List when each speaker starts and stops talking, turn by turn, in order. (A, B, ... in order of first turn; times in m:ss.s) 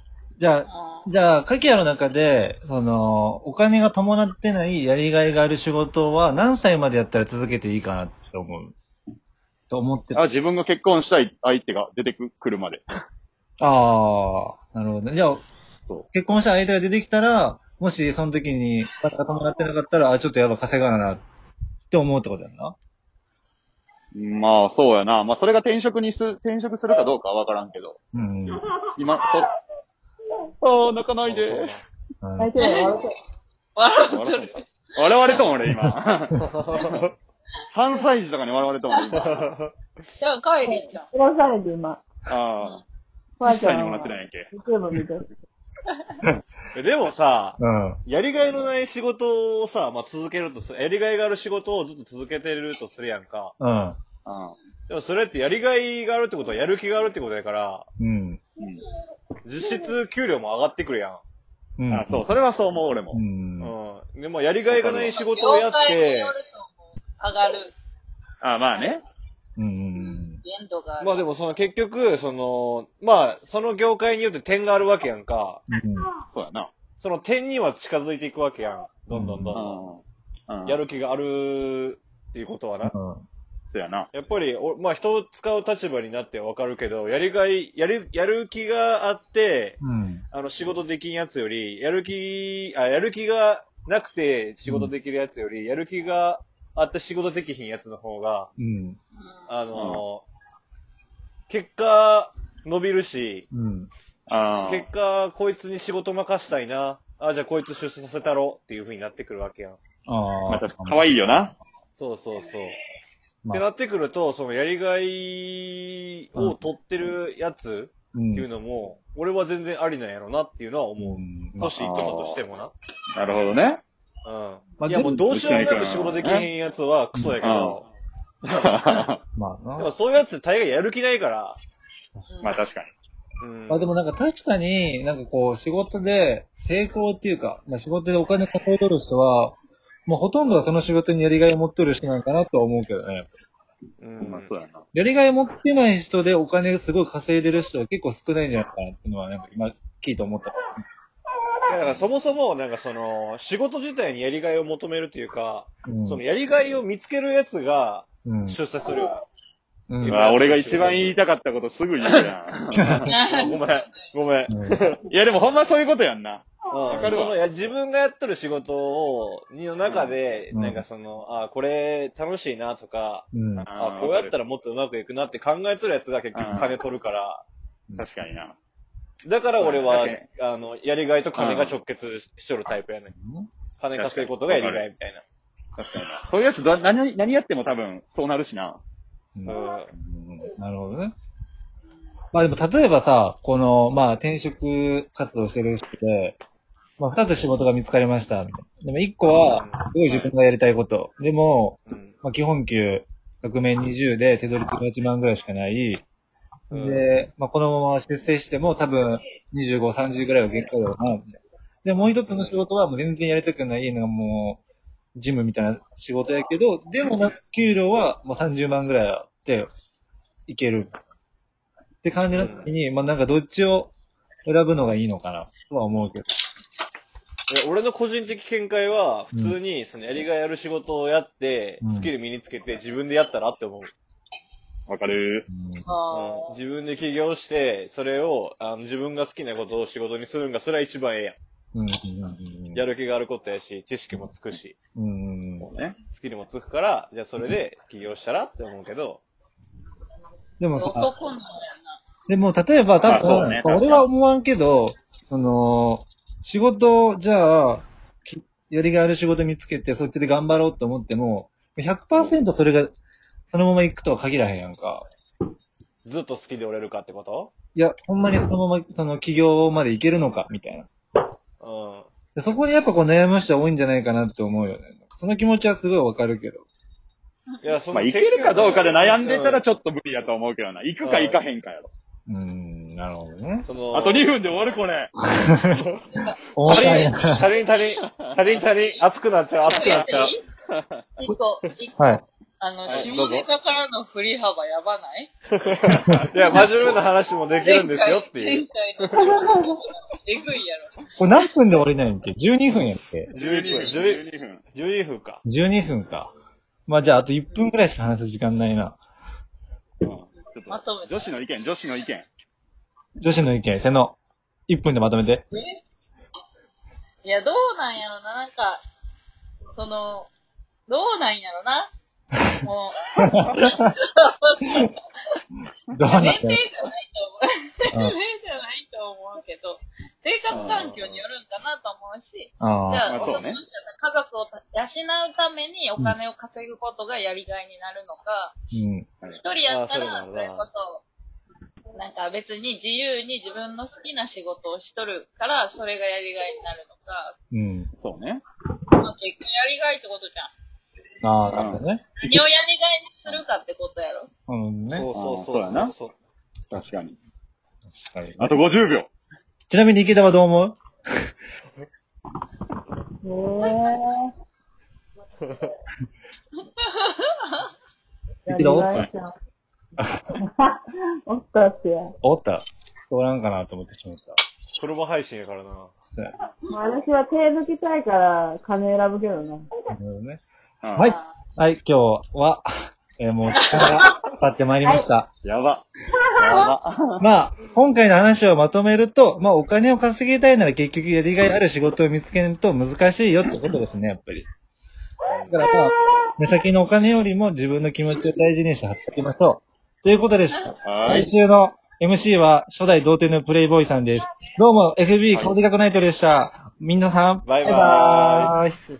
0:00.4-0:08.7 A
0:00.7-0:01.1 B
0:09.7-0:10.2 A
0:10.1-0:12.8 C
0:13.6-0:15.4 A
0:16.1-0:21.2 A
0:21.9-0:22.8 A
0:24.1-0:28.0 C
0:28.1-0:28.6 A
0:29.0-0:29.5 C
0:30.6-0:31.8 C
0:31.2-0:31.8 D
0:32.2-0:32.5 A
0:32.4-0:33.2 E
0:32.6-0:33.0 B
0:33.8-0:34.6 B
0:34.1-0:37.0 C
0:36.4-0:37.0 D
0:37.7-0:39.4 C
0:39.0-0:39.2 B
0:39.1-0:39.7 D
0:40.2-0:41.1 B
0:40.7-0:42.0 E
0:42.3-0:42.8 C
0:43.4-0:44.5 C
0:43.4-0:45.3 E
0:46.7-0:53.5 D
0:47.6-0:48.0 A
0:53.6-0:54.0 A
0:54.2-0:54.6 C
0:54.9-0:57.9 D
0:58.0-0:58.4 A
0:58.6-0:58.8 C
0:59.4-1:01.2 D
1:01.8-1:02.3 A
1:01.9-1:03.2 C
1:03.1-1:03.7 A
1:03.6-1:06.3 D
1:04.7-1:05.2 C
1:05.1-1:07.7 B
1:08.4-1:09.0 C
1:09.6-1:10.4 A
1:10.4-1:11.2 B
1:11.0-1:15.6 D
1:15.7-1:16.1 A
1:16.3-1:16.7 C
1:17.0-1:19.8 D
1:19.1-1:19.6 A
1:19.5-1:20.8 C
1:20.6-1:22.9 D
1:22.8-1:23.2 A
1:23.7-1:24.1 C
1:24.1-1:29.8 D
1:29.8-1:30.2 A
1:30.3-1:38.5 D
1:34.6-1:34.9 A
1:38.6-1:39.0 A
1:39.5-1:40.2 D
1:39.7-1:40.0 C
1:41.5-1:43.5 D
1:43.5-1:43.9 A
1:44.3-1:44.9 C
1:44.6-1:49.8 D
1:50.1-1:51.1 A
1:50.5-1:51.6 C
1:52.0-1:52.8 D
1:53.5-2:02.7 D
1:58.1-1:58.5 A
2:01.0-2:01.7 A
2:01.7-2:02.4 C
2:03.2-2:03.8 C
2:04.2-2:07.9 D
2:04.8-2:05.3 A
2:04.9-2:06.5 C
2:07.4-2:07.8 C
2:08.4-2:09.1 D
2:08.5-2:09.2 C
2:09.4-2:09.9 A
2:09.8-2:11.6 D
2:12.3-2:12.6 B
2:12.4-2:12.9 C
2:13.4-2:13.9 D
2:13.7-2:19.6 A
2:20.1-2:23.3 A
2:24.0-2:24.5 D
2:24.2-2:24.8 C
2:24.9-2:30.7 A
2:31.7-2:39.2 D
2:35.8-2:36.2 A
2:38.2-2:38.6 A
2:39.9-2:40.2 A
2:40.0-2:41.1 D
2:40.1-2:43.1 C
2:42.0-2:42.3 D
2:42.7-2:43.1 A
2:43.1-2:43.9 B
2:43.1-2:45.0 D
2:44.5-2:44.9 A
2:45.1-2:47.4 C
2:46.7-2:57.4 D
2:49.8-2:50.2 C
2:50.5-2:50.8 A
2:53.3-2:53.7 A
2:53.6-2:54.4 C
2:56.3-2:56.8 C
2:58.0-2:58.5 C
2:59.2-3:03.1 D
2:59.6-3:00.2 C
3:01.3-3:01.8 C
3:03.1-3:03.5 A
3:03.8-3:05.2 D
3:04.0-3:04.9 C
3:05.8-3:08.8 C
3:09.4-3:11.1 A
3:09.4-3:09.9 D
3:12.3-3:16.4 A
3:17.0-3:26.0 A
3:19.4-3:20.3 D
3:21.9-3:22.2 D
3:26.7-3:27.1 D
3:26.7-3:34.6 A
3:32.1-3:32.6 D
3:35.2-3:39.7 A
3:40.5-3:41.0 A
3:42.0-3:43.9 A
3:42.3-3:42.7 D
3:44.4-3:46.3 A
3:47.5-3:53.9 D
3:49.3-3:49.6 A
3:51.8-3:52.1 A
3:54.9-3:55.4 C
3:55.5-3:55.9 A
3:55.8-3:56.5 B
3:56.1-4:01.4 D
4:01.7-4:02.8 A
4:02.7-4:04.8 D
4:05.0-4:05.7 A
4:05.6-4:06.0 C
4:06.1-4:09.2 D
4:10.6-4:11.1 A
4:10.8-4:12.0 B
4:12.3-4:22.9 A
4:13.0-4:14.0 C
4:22.1-4:22.4 D
4:23.5-4:25.0 A
4:26.0-4:27.5 D
4:27.7-4:30.9 A
4:31.6-4:32.1 D
4:32.3-4:36.6 A
4:37.6-4:39.6 D
4:37.9-4:41.9 C
4:41.0-4:41.4 D
4:42.3-4:43.7 A
4:43.6-4:44.4 D
4:43.9-4:45.1 C
4:45.2-4:45.8 A
4:46.1-4:47.2 B
4:46.5-4:47.5 A
4:46.7-4:50.3 D
4:49.7-4:50.4 B
4:49.7-4:51.0 C
4:51.2-4:52.0 B
4:52.0-4:52.2 A
4:52.6-4:55.3 B
4:52.9-4:53.5 D
4:55.6-4:59.3 D
4:55.8-4:56.3 C
4:57.6-5:01.5 B
5:01.2-5:03.3 A
5:03.3-5:05.4 D
5:03.4-5:04.6 C
5:05.4-5:06.3 A
5:06.9-5:09.0 A
5:10.0-5:12.3 C
5:10.7-5:11.2 B
5:13.2-5:14.2 A
5:14.7-5:15.4 A
5:15.5-5:15.8 B
5:17.2-5:18.8 B
5:19.7-5:20.3 B
5:20.9-5:21.9 B
5:22.6-5:24.9 B
5:23.2-5:23.5 A
5:25.9-5:26.6 A
5:26.1-5:38.5 B
5:30.5-5:30.9 C
5:30.6-5:31.2 D
5:32.6-5:33.1 A
5:33.1-5:33.6 C
5:38.7-5:39.1 A
5:39.4-5:41.0 B
5:39.6-5:40.7 D
5:41.9-5:47.3 B
5:47.5-5:47.9 A
5:48.0-5:48.4 C
5:49.0-5:50.5 B
5:51.2-5:52.4 A
5:51.5-5:51.8 C
5:52.2-5:54.3 B
5:54.5-5:55.0 A
5:54.9-5:56.1 D
5:55.1-5:55.9 C
5:56.7-5:57.2 C
5:57.9-5:58.5 A
5:58.4-5:59.1 C
5:59.7-6:00.8 A
6:03.2-6:04.3 E
6:05.4-6:05.7 D
6:06.8-6:07.6 B
6:08.4-6:09.3 E
6:08.5-6:09.1 A
6:10.4-6:12.1 E
6:12.2-6:14.4 A
6:14.8-6:15.9 D
6:16.0-6:16.3 A
6:16.7-6:19.7 E
6:19.9-6:20.4 A
6:20.8-6:21.1 C
6:20.9-6:25.3 A
6:21.0-6:21.3 B
6:24.8-6:25.1 E
6:25.4-6:25.8 C
6:26.4-6:26.7 E
6:26.4-6:27.2 C
6:27.2-6:34.5 A
6:35.3-6:35.6 D
6:35.5-6:48.7 A
6:40.8-6:41.3 C
6:47.4-6:48.6 D